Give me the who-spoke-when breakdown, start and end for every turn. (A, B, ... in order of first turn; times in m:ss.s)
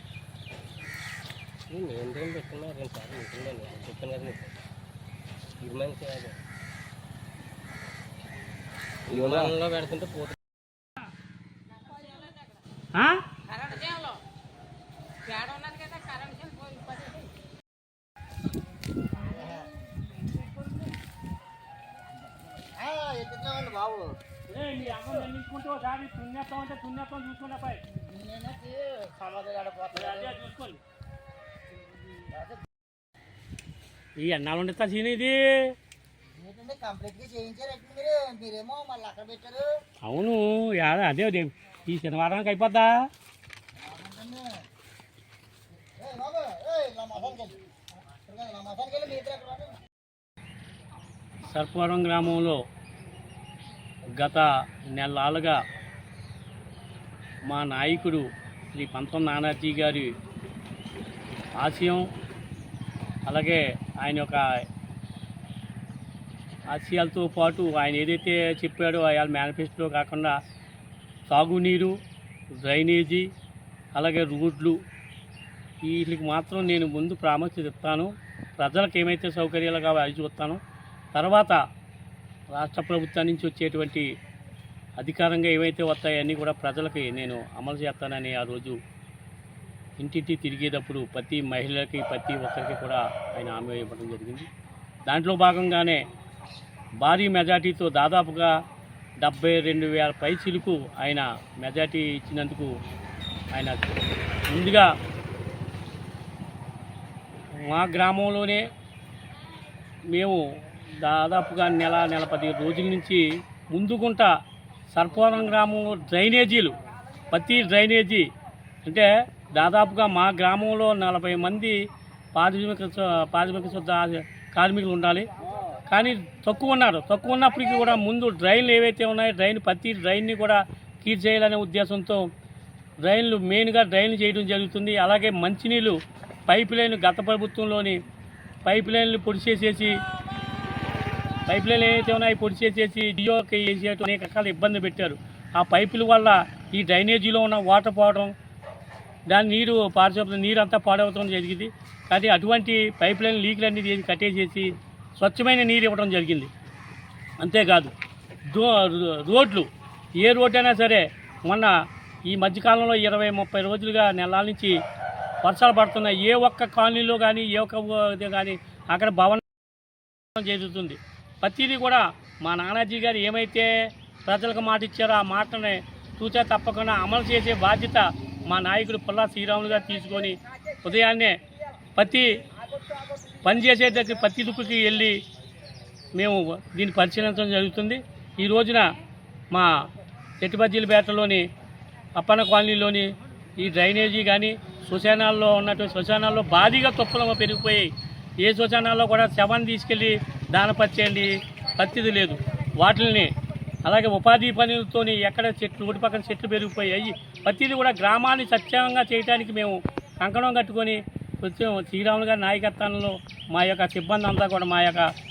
0:01.7-0:04.5 A
0:05.6-0:06.4 A
0:09.1-0:10.4 A
0:12.9-0:13.2 B
0:19.2-0:19.6 C
0:22.6-0:24.2 C
0:24.5-0:27.8 B
0:27.9-0:30.3 C
0:29.9-0:30.8 B
0:34.2-0:35.7 B
0:36.3-0:39.7 C
0:40.0-0:43.0 B
0:43.8-0:44.6 C
0:46.0-0:49.8 C
0:51.5-0:52.6 B
0:54.2-0:55.6 B
0:57.5-1:00.1 B
1:01.6-1:02.0 B
1:03.2-1:04.4 B
1:06.7-1:10.4 B
1:11.3-1:11.9 B
1:12.6-1:13.3 B
1:13.9-1:14.8 B
1:15.8-1:20.6 B
1:21.1-1:21.6 B
1:22.5-1:24.0 B
1:25.0-1:28.8 B
1:30.0-1:34.5 B
1:35.0-1:36.0 B
1:37.0-1:38.5 B
1:39.2-1:42.7 B
1:43.5-1:43.9 B
1:44.5-1:44.9 B
1:47.6-1:48.6 B
1:50.1-1:50.4 B
1:51.0-1:54.3 B
1:54.9-1:56.7 B
1:57.3-1:58.3 B
1:58.8-2:01.7 B
2:02.3-2:05.3 B
2:05.9-2:12.2 B
2:13.0-2:18.0 B
2:18.6-2:19.9 B
2:21.5-2:28.3 B
2:29.3-2:36.5 B
2:37.4-2:37.9 B
2:38.5-2:39.7 B
2:40.2-2:41.7 B
2:42.3-2:44.7 B
2:45.4-2:49.4 B
2:50.3-2:53.7 B
2:54.2-3:01.4 B
3:02.0-3:02.2 B
3:03.4-3:05.2 B
3:06.1-3:08.8 B
3:10.4-3:11.4 B
3:12.1-3:17.9 B
3:18.4-3:23.3 B
3:23.8-3:35.1 B